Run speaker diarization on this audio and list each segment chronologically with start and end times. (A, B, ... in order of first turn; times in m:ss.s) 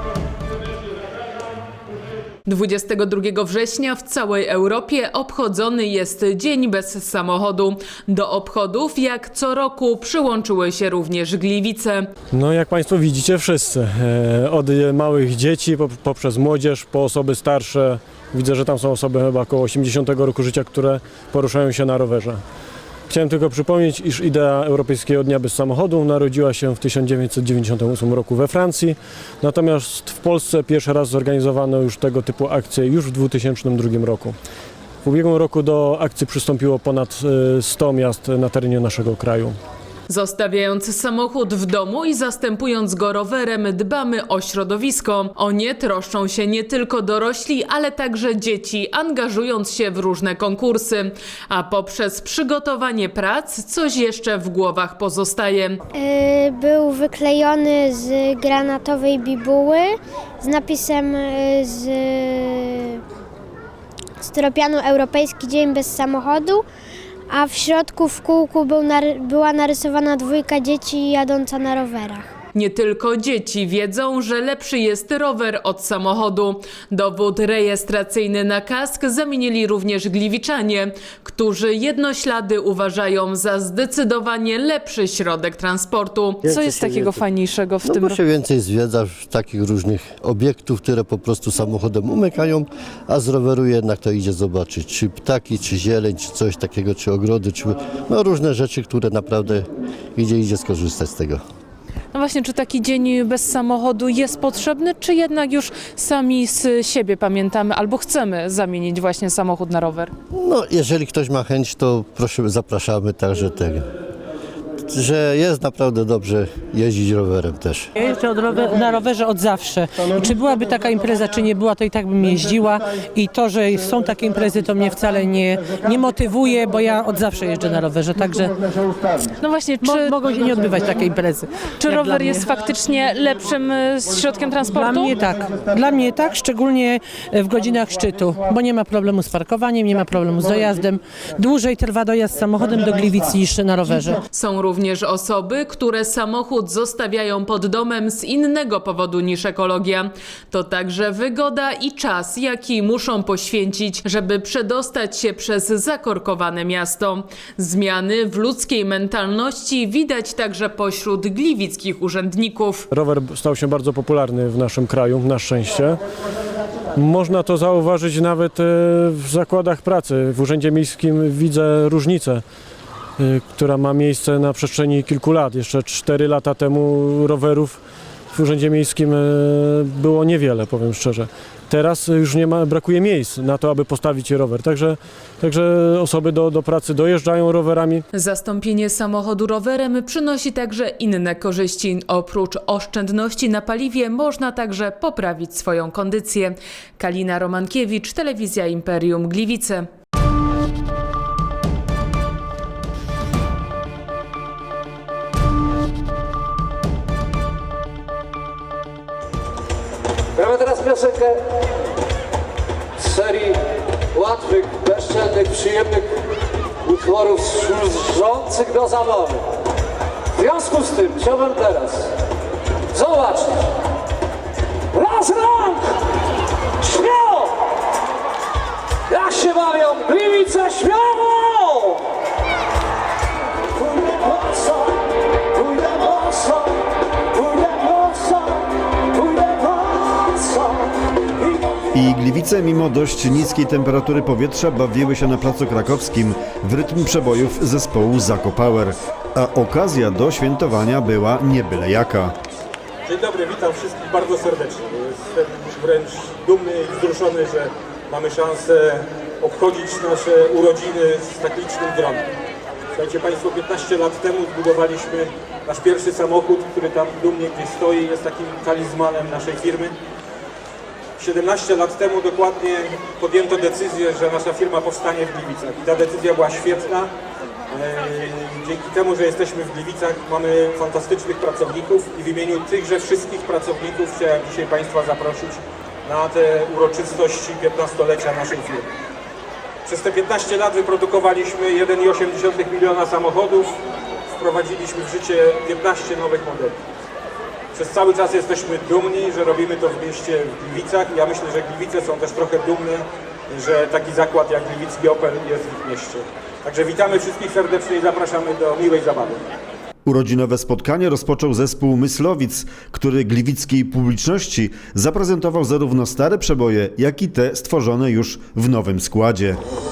0:02.4-0:12.1 A
0:12.3-0:22.4 B
0:23.1-0:34.4 B
0:35.0-0:39.6 B
0:40.1-0:55.8 A
0:55.9-1:03.0 C
1:04.2-1:06.6 C
1:07.3-1:12.3 C
1:12.5-1:27.3 A
1:26.5-1:28.2 D
1:27.8-1:41.4 E
1:42.1-1:50.1 D
1:50.3-1:53.9 E
1:54.9-1:57.9 E
1:58.0-2:08.6 F
2:09.4-2:10.1 D
2:09.8-2:12.4 F
2:11.8-2:15.1 D
2:14.8-2:24.2 F
2:24.3-2:42.9 A
2:42.9-2:46.0 B
2:47.0-2:52.4 B
2:53.2-2:57.8 B
2:58.3-3:08.0 B
3:08.1-3:19.9 A
3:30.4-3:31.4 G
3:33.0-3:33.6 G
3:34.1-3:36.1 G
3:36.8-3:39.4 G
3:40.4-3:42.1 G
3:42.9-3:43.7 G
3:44.9-3:46.0 G
3:46.8-3:47.6 G
3:49.1-3:52.0 G
3:53.8-3:55.0 G
3:55.6-3:56.8 G
3:57.4-4:00.8 G
4:01.9-4:12.4 H
4:13.1-4:22.3 I
4:22.9-4:29.9 I
4:31.2-4:37.1 I
4:37.7-4:48.9 I
4:49.9-4:53.7 I
4:54.3-4:56.8 I
4:57.7-5:09.5 I
5:10.0-5:19.6 H